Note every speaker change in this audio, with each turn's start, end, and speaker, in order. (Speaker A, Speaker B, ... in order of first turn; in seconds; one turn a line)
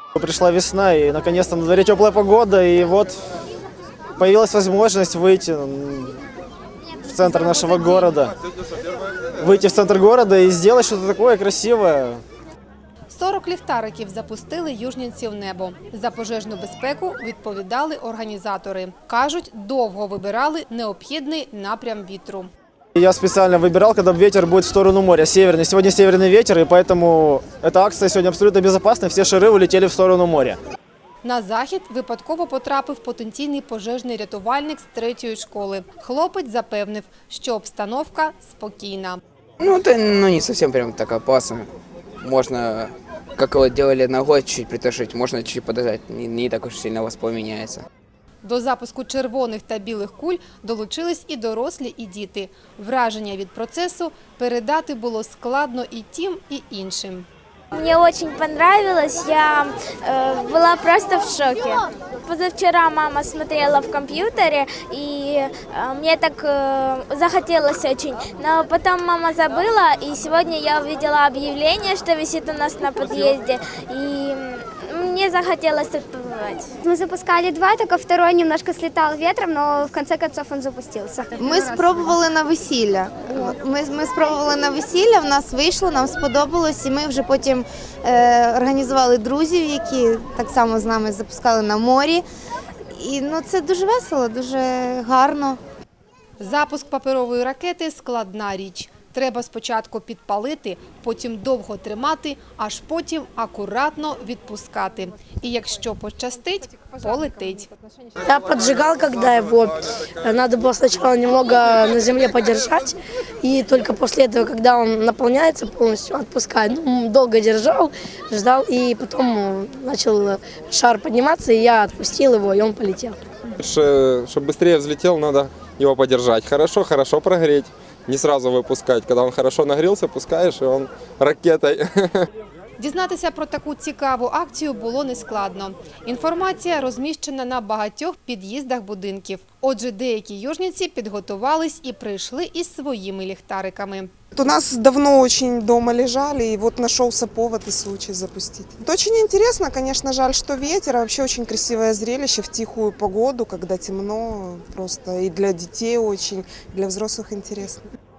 Speaker A: 0.1-3.2
Speaker A: 4.2-6.2
Speaker A: 7.0-8.3
Speaker B: 7.2-8.1
Speaker A: 9.4-12.2
Speaker B: 13.1-22.5
Speaker A: 22.9-30.6
Speaker B: 31.2-39.2
Speaker C: 39.6-47.9
Speaker B: 48.4-57.3
Speaker D: 57.7-76.7
Speaker E: 76.8-81.5
Speaker F: 81.3-92.2
Speaker F: 92.9-95.6
Speaker B: 96.4-107.7
Speaker G: 108.2-123.2
Speaker H: 123.6-131.9
Speaker B: 132.8-144.1
Speaker I: 144.3-157.8